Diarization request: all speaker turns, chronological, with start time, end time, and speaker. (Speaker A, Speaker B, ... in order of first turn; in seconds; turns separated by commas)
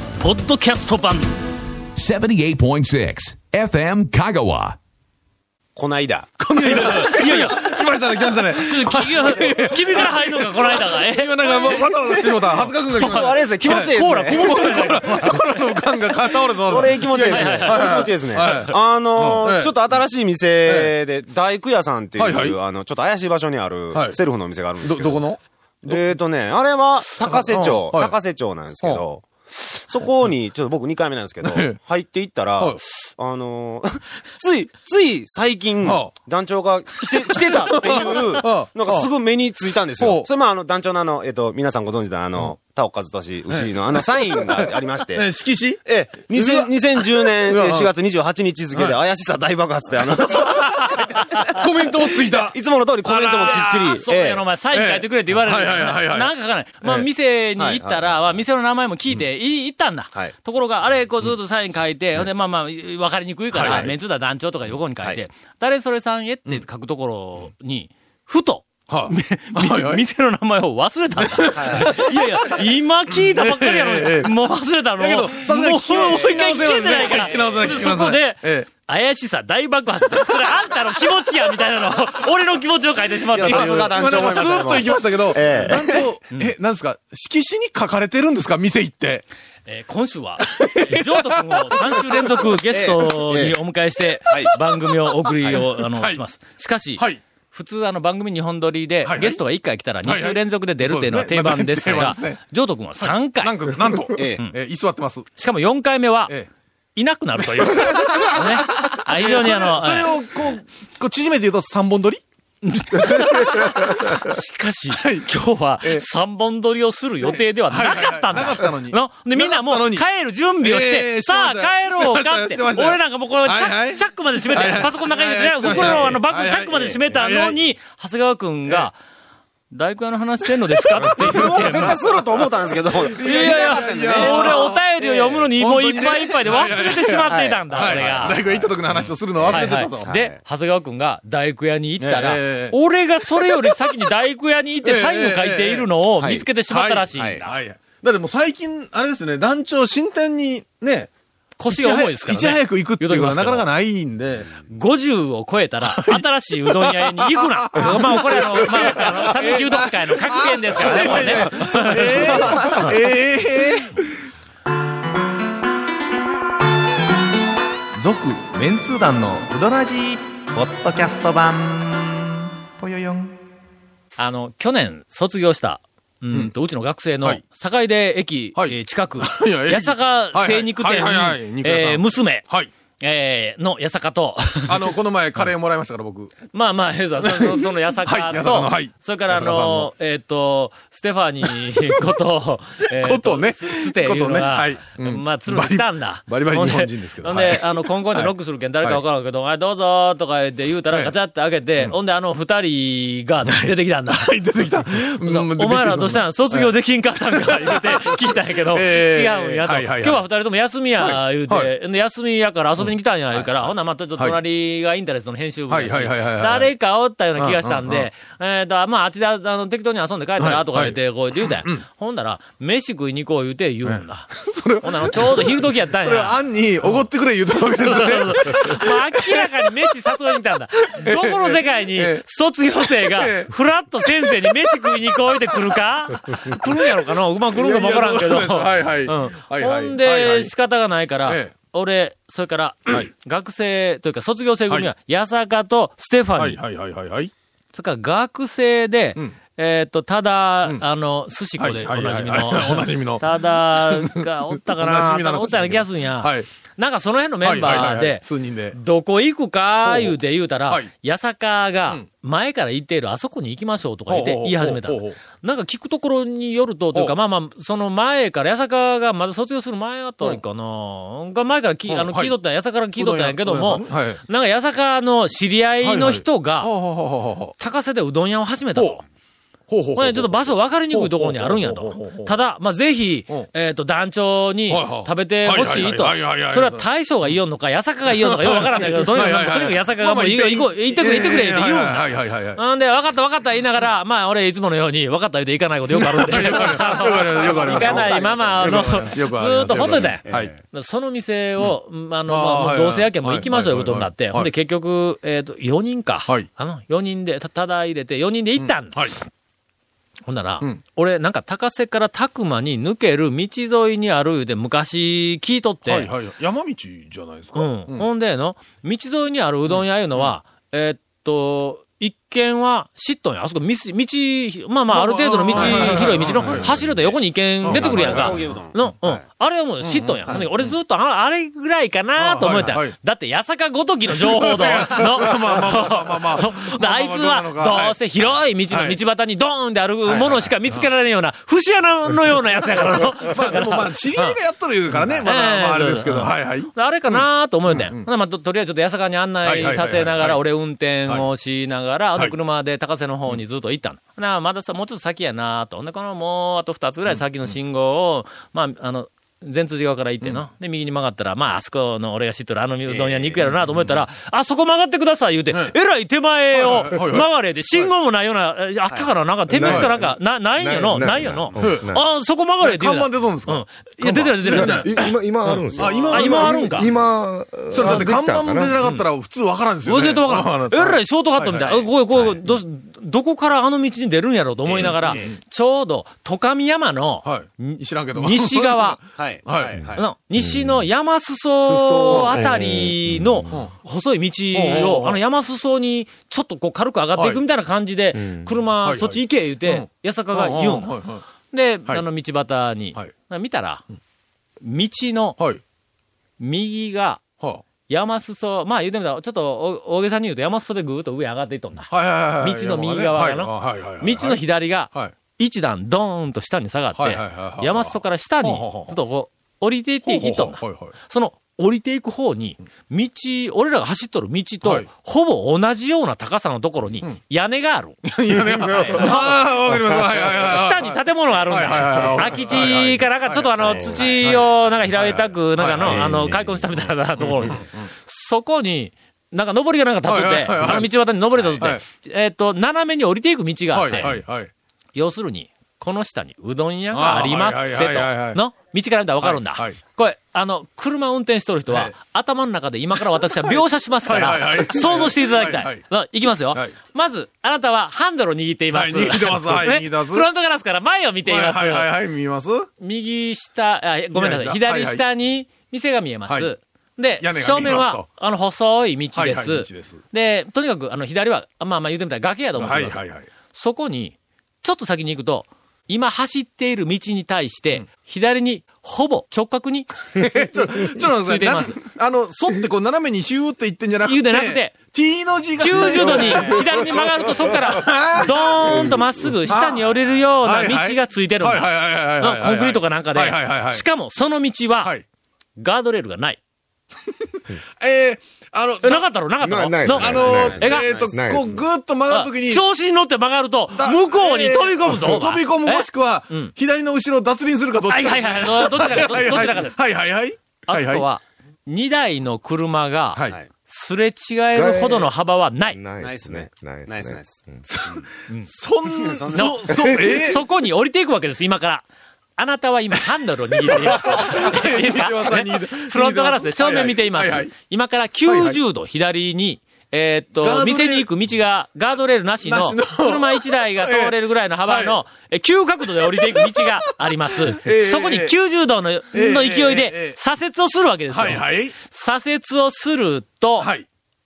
Speaker A: 0.2-1.3, Speaker B: 1.9-4.8, Speaker C: 5.8-6.3, Speaker D: 6.4-19.9, Speaker A: 6.6-7.7, Speaker A: 8.5-12.3, Speaker C: 13.0-14.6, Speaker A: 13.0-15.6, Speaker C: 16.7-25.2, Speaker A: 17.2-18.0, Speaker D: 20.6-20.9, Speaker D: 22.2-22.6, Speaker D: 23.9-24.2, Speaker D: 24.8-26.1, Speaker C: 25.8-45.3, Speaker D: 27.2-28.2, Speaker A: 27.5-27.8, Speaker D: 31.4-31.8, Speaker D: 35.8-36.1, Speaker D: 37.0-39.1, Speaker D: 40.0-40.3, Speaker D: 43.5-47.9, Speaker C: 45.8-51.4, Speaker D: 48.7-49.0, Speaker D: 50.2-53.9, Speaker A: 50.8-51.5, Speaker C: 52.1-54.4, Speaker A: 53.4-83.9, Speaker D: 54.7-57.1, Speaker C: 57.6-58.3, Speaker D: 63.5-63.9, Speaker C: 63.6-63.9, Speaker D: 68.9-70.0, Speaker D: 71.2-72.1, Speaker C: 71.5-72.0, Speaker D: 73.1-74.3, Speaker D: 75.0-78.7, Speaker C: 75.9-77.8, Speaker C: 83.3-86.1, Speaker D: 83.4-89.2, Speaker A: 89.7-103.6, Speaker D: 90.4-92.4, Speaker C: 92.7-93.6, Speaker C: 94.3-94.5, Speaker D: 95.4-96.2, Speaker D: 99.0-99.4, Speaker D: 100.0-102.4, Speaker D: 103.0-105.3, Speaker C: 104.2-104.4, Speaker A: 105.3-106.3, Speaker A: 106.9-110.1, Speaker D: 107.4-112.2, Speaker A: 112.6-129.0, Speaker D: 113.0-114.2, Speaker D: 114.9-116.0, Speaker D: 117.2-120.0, Speaker D: 120.6-127.7, Speaker C: 125.6-126.1, Speaker A: 129.7-132.0, Speaker D: 131.0-132.1, Speaker C: 131.0-135.4, Speaker D: 133.0-134.8, Speaker A: 133.0-138.4, Speaker D: 135.6-140.1, Speaker C: 137.2-140.4, Speaker A: 139.5-147.6, Speaker D: 142.0-142.8, Speaker D: 143.4-143.8, Speaker D: 144.8-145.9, Speaker C: 146.2-146.4, Speaker D: 146.7-151.1, Speaker C: 147.1-147.4, Speaker A: 151.6-153.7, Speaker D: 151.7-154.5, Speaker A: 154.7-162.9, Speaker D: 155.8-164.0, Speaker D: 168.0-170.2, Speaker E: 168.0-172.3, Speaker D: 170.8-171.9, Speaker D: 172.7-173.3, Speaker A: 174.1-182.4, Speaker D: 178.6-182.7, Speaker A: 183.0-184.9, Speaker D: 184.7-186.3, Speaker A: 186.5-204.3, Speaker D: 187.2-189.9, Speaker D: 193.0-199.0, Speaker D: 203.4-210.2, Speaker A: 205.2-224.3, Speaker D: 211.0-211.7, Speaker D: 215.7-216.7, Speaker D: 217.4-218.1, Speaker D: 220.4-221.8, Speaker D: 223.8-229.6, Speaker A: 224.8-226.4, Speaker A: 227.8-246.6, Speaker D: 231.0-232.2, Speaker D: 232.8-233.5, Speaker D: 234.0-235.3, Speaker D: 237.5-240.5, Speaker D: 241.2-241.5, Speaker D: 246.4-247.3, Speaker A: 247.7-276.7, Speaker D: 251.6-256.5, Speaker D: 257.4-258.8, Speaker D: 259.8-260.9, Speaker D: 264.1-265.2, Speaker D: 271.9-272.3, Speaker D: 273.0-274.2, Speaker D: 275.8-277.5, Speaker A: 277.6-279.0, Speaker D: 279.7-282.3, Speaker A: 279.9-309.2, Speaker D: 284.7-286.9, Speaker D: 288.1-292.6, Speaker D: 295.9-300.5, Speaker C: 296.8-299.1, Speaker C: 300.2-300.5, Speaker D: 302.3-304.5, Speaker D: 308.6-309.1, Speaker A: 310.2-316.1, Speaker D: 315.9-318.1, Speaker A: 317.5-344.4, Speaker D: 319.7-320.3, Speaker D: 324.9-327.0, Speaker C: 325.5-326.9, Speaker D: 327.6-328.6, Speaker C: 327.7-329.2, Speaker D: 329.8-330.6, Speaker D: 332.2-332.9, Speaker D: 334.1-337.9, Speaker D: 338.7-339.0, Speaker D: 340.1-340.9, Speaker D: 343.0-348.1, Speaker A: 345.2-376.9, Speaker D: 349.4-350.4, Speaker C: 362.9-363.7, Speaker D: 366.5-367.3, Speaker C: 368.9-369.1, Speaker F: 369.5-372.1, Speaker D: 369.6-369.9, Speaker D: 371.6-371.9, Speaker D: 372.6-376.6, Speaker F: 374.4-378.8, Speaker C: 375.7-376.5, Speaker D: 377.7-381.9, Speaker A: 377.8-378.1, Speaker A: 378.8-379.0, Speaker A: 379.8-389.0, Speaker C: 384.6-385.4, Speaker D: 384.8-385.4, Speaker D: 387.2-388.9, Speaker C: 389.1-390.1, Speaker D: 389.4-389.8, Speaker A: 389.9-400.9, Speaker F: 390.4-390.7, Speaker F: 391.7-393.6, Speaker D: 392.1-392.4, Speaker D: 394.5-395.2, Speaker D: 397.1-397.4, Speaker D: 398.8-401.2, Speaker A: 401.5-403.8, Speaker A: 404.6-405.4, Speaker A: 406.4-407.2, Speaker A: 407.9-428.0, Speaker D: 411.9-415.1, Speaker D: 417.0-418.9, Speaker D: 420.1-420.9, Speaker D: 428.0-436.3, Speaker A: 428.8-429.4, Speaker A: 430.2-444.2, Speaker C: 433.6-433.9, Speaker F: 436.0-436.5, Speaker D: 437.2-437.8, Speaker D: 440.1-440.9, Speaker D: 443.7-444.5, Speaker A: 444.9-461.9, Speaker D: 446.9-448.4, Speaker D: 449.2-449.8, Speaker D: 454.0-455.9, Speaker D: 458.7-460.2, Speaker D: 461.2-462.7, Speaker A: 462.8-473.0, Speaker D: 464.1-465.0, Speaker D: 466.3-466.5, Speaker D: 467.1-468.1, Speaker D: 469.1-470.0, Speaker D: 472.6-473.3, Speaker A: 473.5-479.9, Speaker D: 480.1-488.9, Speaker A: 480.9-481.8, Speaker A: 484.0-484.8, Speaker A: 485.6-494.9, Speaker F: 486.2-486.8, Speaker F: 488.6-489.1, Speaker D: 489.4-493.8, Speaker A: 495.6-496.4, Speaker D: 497.8-499.1, Speaker A: 498.8-501.1, Speaker F: 499.4-501.6, Speaker D: 499.9-502.6, Speaker C: 500.0-501.1, Speaker A: 502.1-506.5, Speaker D: 503.7-511.1, Speaker A: 507.9-509.8, Speaker A: 510.7-515.8, Speaker F: 514.5-515.1, Speaker F: 515.7-517.6, Speaker C: 516.0-518.1, Speaker D: 517.6-520.4, Speaker C: 518.9-519.5, Speaker A: 519.3-521.9, Speaker F: 519.7-520.1, Speaker A: 522.4-543.7, Speaker D: 523.6-527.5, Speaker D: 528.2-528.6, Speaker D: 530.4-531.1, Speaker D: 532.4-534.1, Speaker D: 534.6-535.0, Speaker D: 535.9-536.7, Speaker D: 537.5-538.3, Speaker D: 539.1-540.2, Speaker D: 541.1-541.7, Speaker D: 543.6-543.9